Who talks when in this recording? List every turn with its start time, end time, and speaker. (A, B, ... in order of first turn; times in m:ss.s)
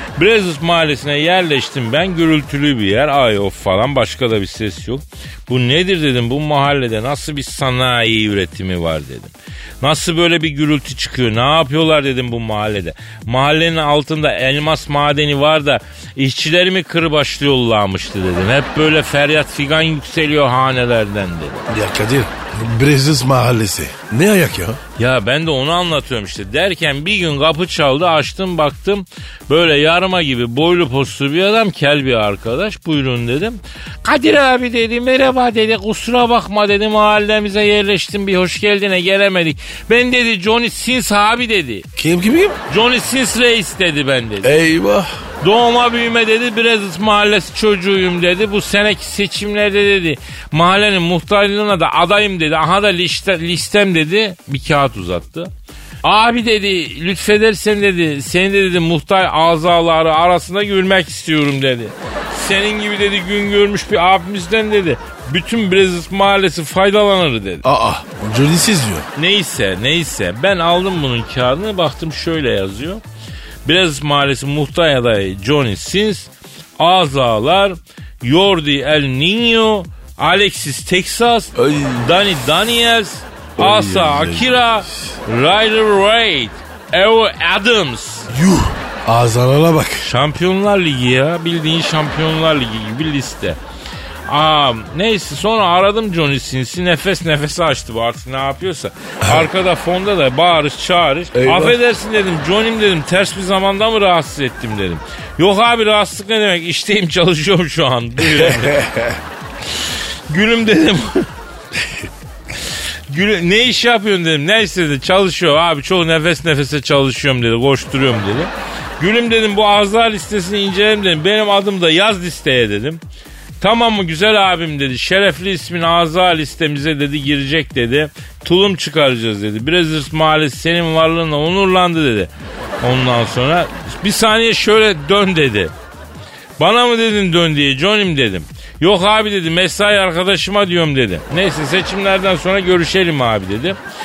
0:00.2-0:21.6 A
0:21.7-0:24.8 B
0:25.0-0:41.9 A
0:42.0-0:42.6 B
0:42.7-0:44.5 A
0:44.4-0:45.1 B
0:45.4-0:55.5 A
0:56.0-1:07.6 A
1:07.6-1:09.0 B
1:09.2-1:13.0 A
1:13.6-1:28.3 A
1:21.6-1:22.1 B
1:23.6-1:24.6 B
1:28.3-1:30.1 B
1:30.0-1:33.6 A
1:34.3-1:48.8 A
1:39.2-1:39.5 B
1:41.3-1:41.8 B
1:48.3-1:49.2 B
1:50.3-1:51.3 A
1:53.1-2:03.0 A
2:03.6-2:12.3 A
2:12.8-2:15.7 A
2:16.6-2:23.8 A